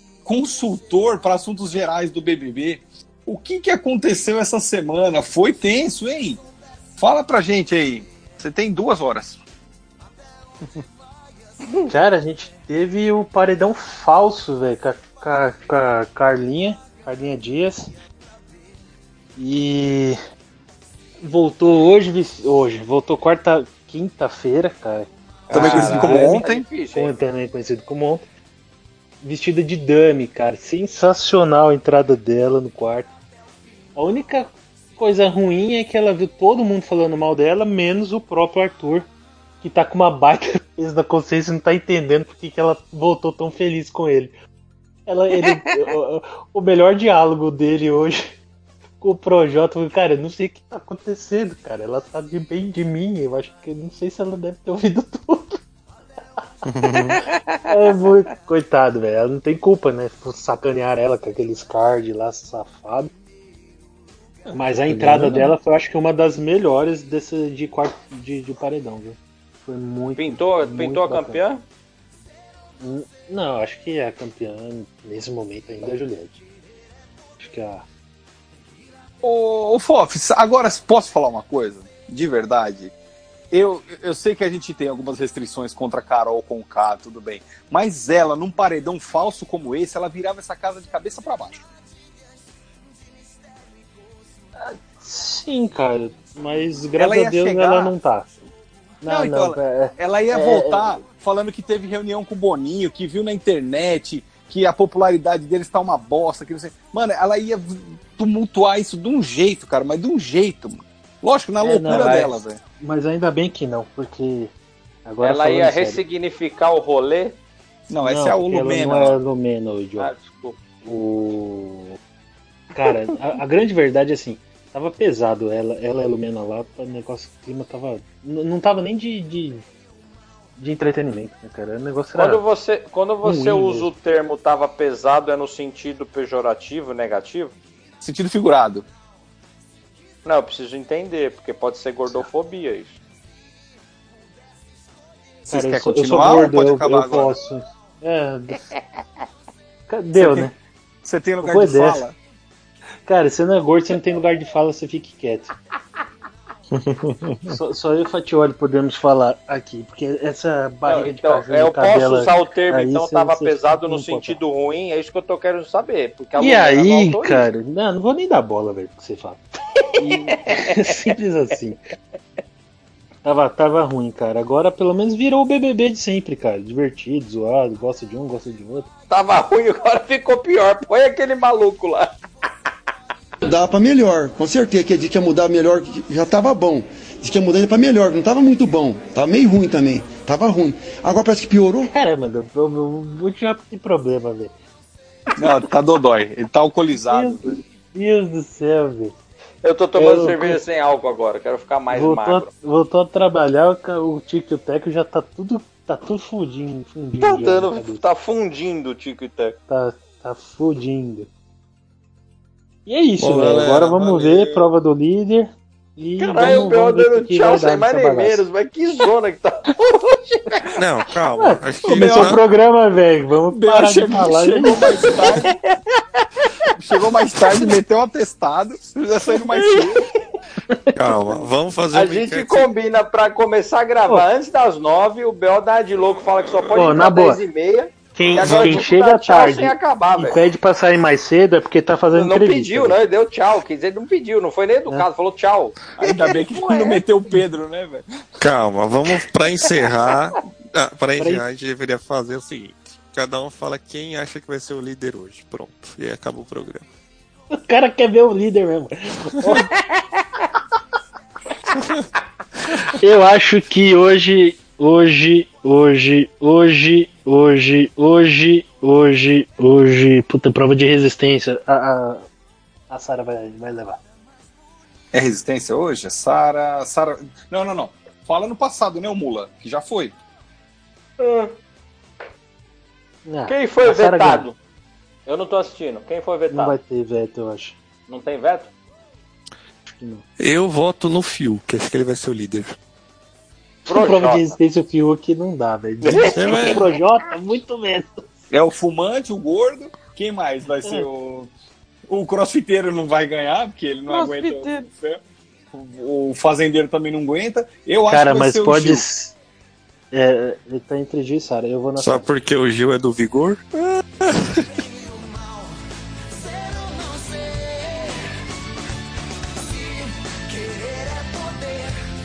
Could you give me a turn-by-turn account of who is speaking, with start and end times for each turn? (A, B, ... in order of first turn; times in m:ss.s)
0:00.2-0:06.4 A
0:07.0-0:09.4 A
0:11.9-0:17.9 B
0:19.4-0:20.2 B
0:21.2-0:26.4 B
0:25.5-0:26.7 A
0:25.5-0:27.2 C
0:25.6-0:26.2 D
0:26.9-0:28.3 B
0:29.2-0:33.1 B
0:34.0-0:39.1 B
0:39.6-0:44.3 B
0:45.1-0:48.3 B
0:49.0-0:55.6 B
0:56.6-0:57.2 D
0:57.0-0:57.8 C
0:57.7-1:03.1 B
1:04.5-1:05.5 D
1:04.5-1:11.4 B
1:10.2-1:11.6 C
1:12.8-1:16.4 B
1:17.4-1:17.8 B
1:19.2-1:22.9 A
1:23.5-1:31.6 A
1:34.6-1:38.3 B
1:37.0-1:37.9 A
1:39.0-1:41.0 B
1:39.1-1:52.6 A
1:51.6-1:54.5 B
1:51.9-1:52.4 C
1:55.1-1:56.0 B
1:55.2-1:57.4 C
1:57.9-1:59.2 A
1:58.1-2:00.1 B
2:00.0-2:00.6 C
2:00.8-2:02.0 B
2:02.7-2:09.7 B
2:10.6-2:12.4 B
2:12.2-2:17.6 C
2:13.2-2:13.9 B
2:18.0-2:18.9 A
2:20.2-2:23.0 C
2:25.4-2:27.4 A
2:25.5-2:28.6 B
2:29.9-2:30.5 B
2:30.2-2:30.5 A
2:31.0-2:32.2 A
2:31.4-2:32.1 B
2:33.0-2:35.6 B
2:36.7-2:37.6 D
2:37.5-2:44.4 B
2:40.9-2:47.5 C
2:46.4-2:49.4 B
2:50.0-2:50.9 C
2:50.0-2:51.8 B
2:53.2-2:58.9 B
2:59.1-3:02.1 C
3:03.4-3:11.9 E
3:11.9-3:14.5 B
3:15.4-3:17.6 A
3:17.0-3:19.2 B
3:19.6-3:22.5 C
3:20.0-3:20.6 B
3:21.9-3:28.0 B
3:27.2-3:29.6 C
3:29.7-3:31.3 B
3:32.9-3:38.4 B
3:33.2-3:34.7 D
3:36.2-3:40.4 C
3:40.8-3:42.4 D
3:41.4-3:45.0 B
3:41.9-3:42.4 A
3:43.5-3:45.6 A
3:45.0-3:45.5 C
3:46.8-3:50.1 A
3:50.7-3:51.0 B
3:51.0-3:52.7 D
3:51.9-4:00.4 C
3:56.8-3:57.4 B
3:58.2-4:03.0 B
3:58.4-3:58.8 D
4:02.1-4:05.8 C
4:06.0-4:08.1 A
4:06.4-4:07.0 C
4:08.4-4:16.9 D
4:11.2-4:11.4 B
4:17.5-4:19.7 B
4:22.9-4:32.3 B
4:32.9-4:34.0 B
4:35.1-4:40.2 A
4:41.2-4:41.5 C
4:43.2-4:44.5 B
4:43.5-4:44.6 C
4:45.3-4:46.8 C
4:46.5-4:47.8 B
4:48.1-4:48.7 C
4:49.8-4:50.2 B
4:50.4-4:52.8 D
4:53.9-4:58.3 B
4:53.9-4:54.5 C
4:56.1-4:56.3 A
4:56.1-4:56.6 C
4:56.3-4:56.8 D
4:58.5-5:01.5 A
5:02.1-5:05.2 A
5:04.1-5:04.7 B
5:04.3-5:04.7 C
5:05.7-5:09.0 A
5:08.1-5:09.4 B
5:10.1-5:12.3 B
5:12.0-5:14.7 D
5:14.6-5:15.7 E
5:16.3-5:18.2 E
5:19.6-5:22.0 E